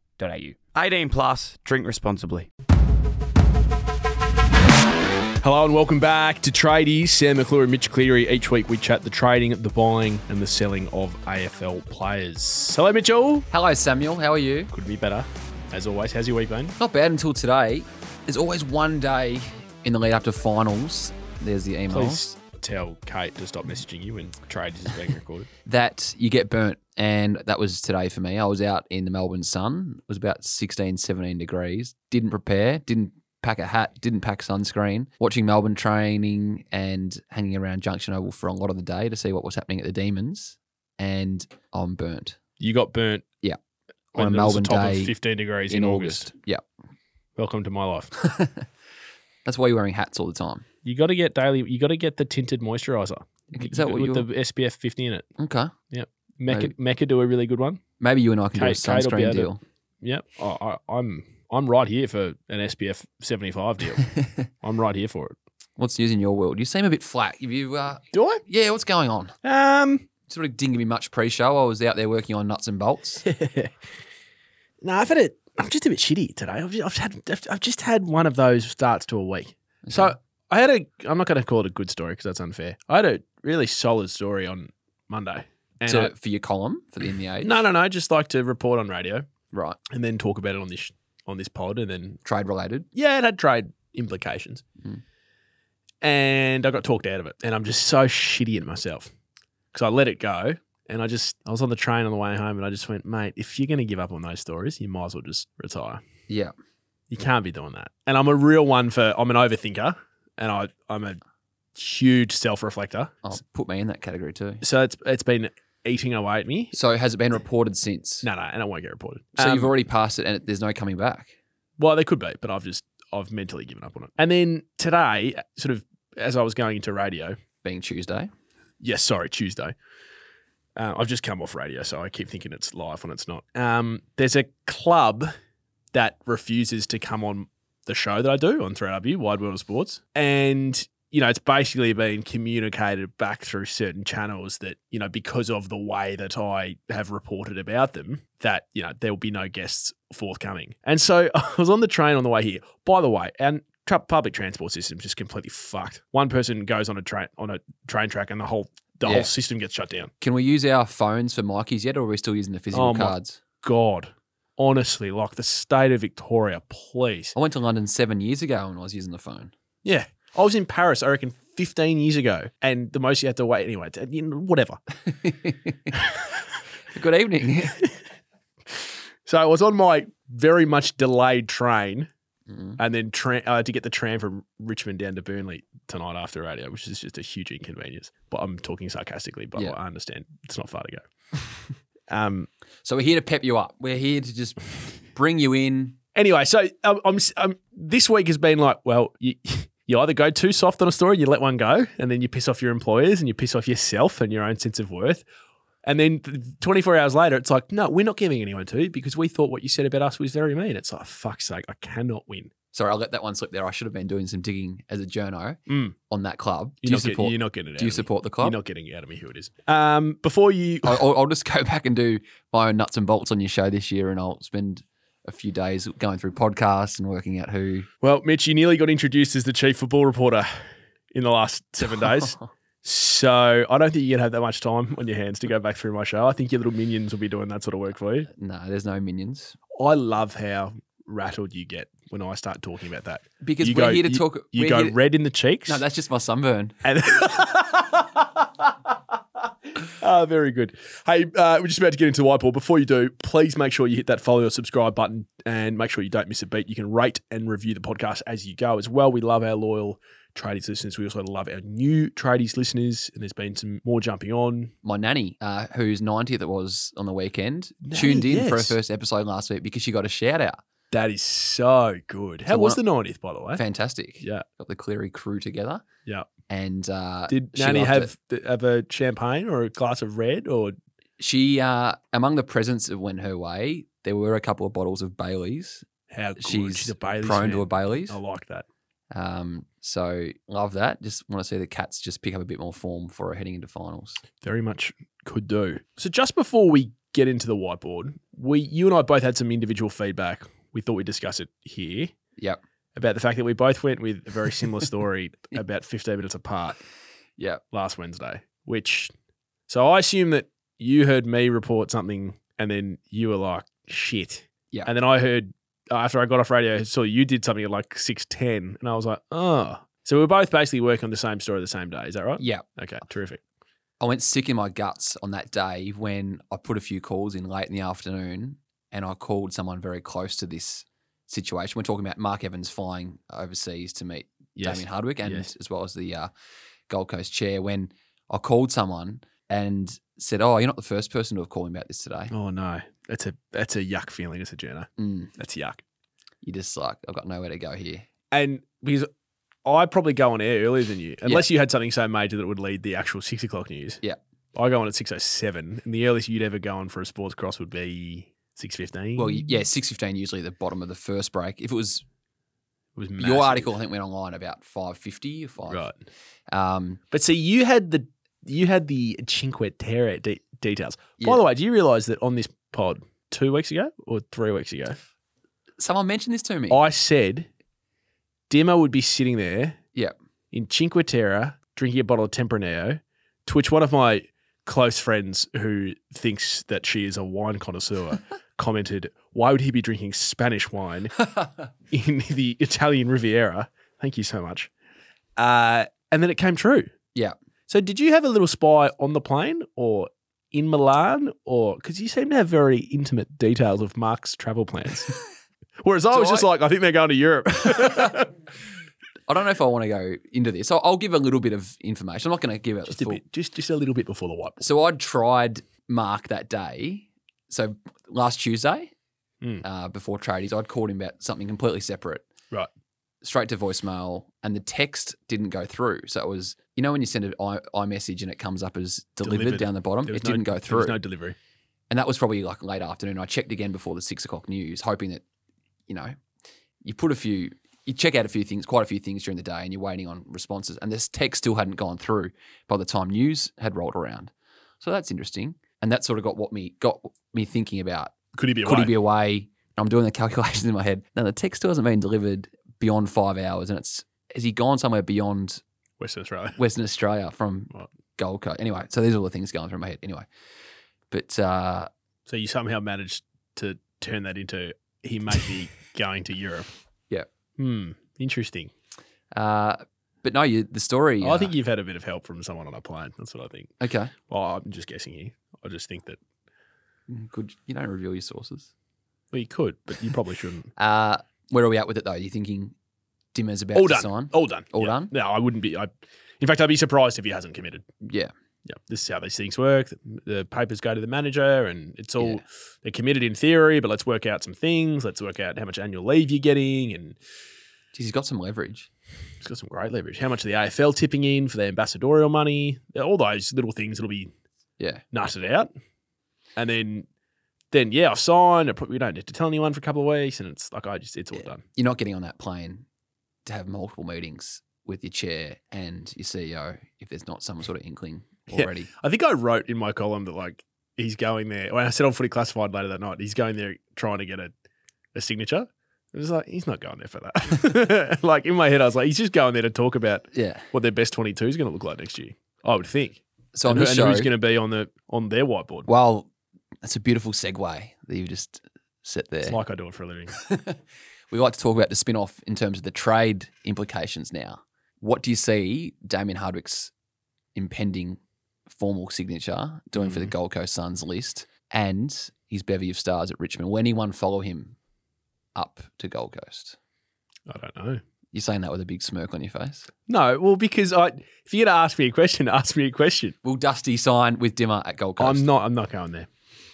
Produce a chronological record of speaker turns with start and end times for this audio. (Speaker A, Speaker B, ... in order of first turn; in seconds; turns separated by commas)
Speaker A: 0.2-2.5, Speaker B: 5.4-13.5, Speaker C: 13.5-14.7, Speaker B: 14.7-16.8, Speaker C: 16.8-22.3, Speaker B: 21.9-25.5, Speaker C: 25.7-42.4, Speaker B: 42.6-43.2, Speaker C: 44.1-45.1, Speaker B: 44.1-46.3, Speaker C: 45.7-46.6, Speaker B: 47.4-48.1, Speaker C: 48.2-48.7, Speaker C: 49.5-50.7, Speaker B: 50.8-55.3, Speaker C: 53.5-54.3, Speaker C: 55.4-55.7, Speaker B: 55.9-57.8, Speaker C: 58.0-59.6, Speaker B: 58.5-64.1, Speaker B: 64.6-65.4, Speaker C: 65.8-69.3, Speaker B: 68.1-68.4, Speaker B: 69.4-70.0, Speaker C: 70.3-73.2, Speaker B: 73.2-73.7, Speaker B: 74.8-86.1, Speaker C: 79.9-80.2, Speaker C: 85.9-87.6, Speaker B: 87.4-89.3, Speaker C: 89.5-89.8, Speaker B: 89.9-92.2, Speaker C: 92.2-92.9, Speaker B: 93.0-94.6, Speaker B: 96.0-99.1, Speaker B: 99.7-106.0, Speaker B: 107.1-111.2, Speaker B: 111.8-113.1, Speaker C: 113.2-114.6, Speaker B: 114.6-116.7, Speaker C: 116.7-118.3, Speaker B: 118.2-119.7, Speaker C: 119.4-121.3, Speaker B: 121.8-127.4, Speaker C: 127.6-128.3, Speaker B: 128.8-129.7, Speaker B: 130.8-135.3, Speaker B: 135.9-160.1, Speaker C: 159.0-159.3, Speaker C: 160.2-163.4, Speaker B: 162.7-167.3, Speaker C: 167.3-169.5, Speaker B: 169.8-174.8, Speaker C: 175.1-176.0, Speaker C: 176.9-177.8, Speaker B: 179.2-182.1, Speaker C: 182.5-182.8, Speaker B: 182.8-191.1, Speaker B: 192.1-192.5, Speaker C: 192.8-196.0, Speaker B: 196.2-205.2, Speaker B: 205.8-212.5, Speaker C: 212.7-218.6, Speaker B: 215.7-215.9, Speaker B: 216.8-221.0, Speaker C: 220.8-227.9, Speaker B: 228.0-230.5, Speaker B: 231.1-238.3, Speaker C: 231.8-232.5, Speaker C: 238.3-239.6, Speaker B: 239.8-245.8, Speaker C: 243.4-245.0, Speaker C: 245.7-246.8, Speaker B: 246.8-248.7, Speaker B: 249.9-264.7, Speaker C: 264.8-270.6, Speaker B: 267.8-268.8, Speaker B: 270.9-273.6, Speaker C: 272.5-272.8, Speaker C: 273.6-275.9, Speaker C: 276.5-278.1, Speaker B: 277.3-280.8, Speaker C: 281.2-285.9, Speaker B: 286.1-288.7, Speaker C: 286.4-288.2, Speaker C: 289.1-294.2, Speaker B: 294.4-302.1, Speaker B: 302.9-306.8, Speaker B: 307.7-309.1, Speaker B: 309.7-323.4, Speaker C: 322.4-322.6, Speaker C: 324.0-336.3, Speaker B: 334.6-335.5, Speaker C: 336.9-342.3, Speaker B: 342.3-345.8, Speaker C: 345.0-345.3, Speaker C: 346.4-348.1, Speaker B: 348.3-349.1, Speaker B: 349.6-354.0, Speaker B: 354.5-359.5, Speaker C: 359.2-362.1, Speaker B: 363.0-363.8, Speaker C: 363.2-365.9, Speaker B: 365.7-366.0, Speaker C: 366.5-367.0, Speaker B: 367.1-375.0, Speaker C: 371.2-371.4, Speaker C: 375.8-376.8, Speaker B: 376.7-377.5, Speaker B: 378.5-379.8, Speaker B: 380.5-391.2, Speaker B: 391.9-394.7, Speaker B: 395.4-396.9, Speaker B: 397.7-405.2, Speaker B: 405.8-408.3, Speaker C: 406.1-406.5, Speaker C: 407.6-408.2, Speaker C: 409.3-413.2, Speaker B: 412.9-414.6, Speaker C: 414.6-418.9, Speaker C: 419.6-422.3, Speaker C: 423.2-431.0, Speaker B: 429.2-431.4, Speaker C: 431.9-435.2, Speaker C: 435.9-436.1, Speaker C: 436.8-455.6, Speaker B: 448.3-449.0, Speaker B: 456.0-456.6, Speaker C: 456.6-460.3, Speaker C: 461.1-461.9, Speaker B: 462.3-466.7, Speaker B: 467.6-468.7, Speaker C: 469.3-471.5, Speaker B: 471.2-473.7, Speaker C: 473.8-474.1, Speaker B: 474.3-476.2, Speaker C: 477.1-478.7, Speaker B: 479.3-480.7, Speaker C: 480.8-482.8, Speaker C: 483.3-485.1, Speaker B: 483.8-485.9, Speaker B: 486.4-487.9, Speaker C: 488.0-488.3, Speaker B: 488.7-497.2, Speaker C: 497.9-498.9, Speaker B: 499.4-504.3, Speaker C: 504.8-505.0, Speaker B: 505.1-505.7, Speaker B: 506.6-507.1, Speaker B: 507.7-511.6, Speaker C: 511.4-512.9, Speaker C: 513.5-518.9, Speaker B: 518.5-524.5, Speaker B: 525.1-535.9, Speaker C: 530.3-530.6, Speaker C: 533.5-534.3, Speaker C: 535.9-536.3, Speaker C: 536.8-539.6, Speaker B: 539.5-540.4, Speaker C: 540.4-540.8, Speaker C: 541.3-546.9, Speaker C: 547.5-554.8, Speaker B: 550.0-550.3, Speaker C: 555.5-556.8, Speaker B: 557.5-558.0, Speaker C: 558.3-559.9, Speaker B: 560.1-563.4, Speaker C: 563.4-565.5, Speaker B: 565.2-566.3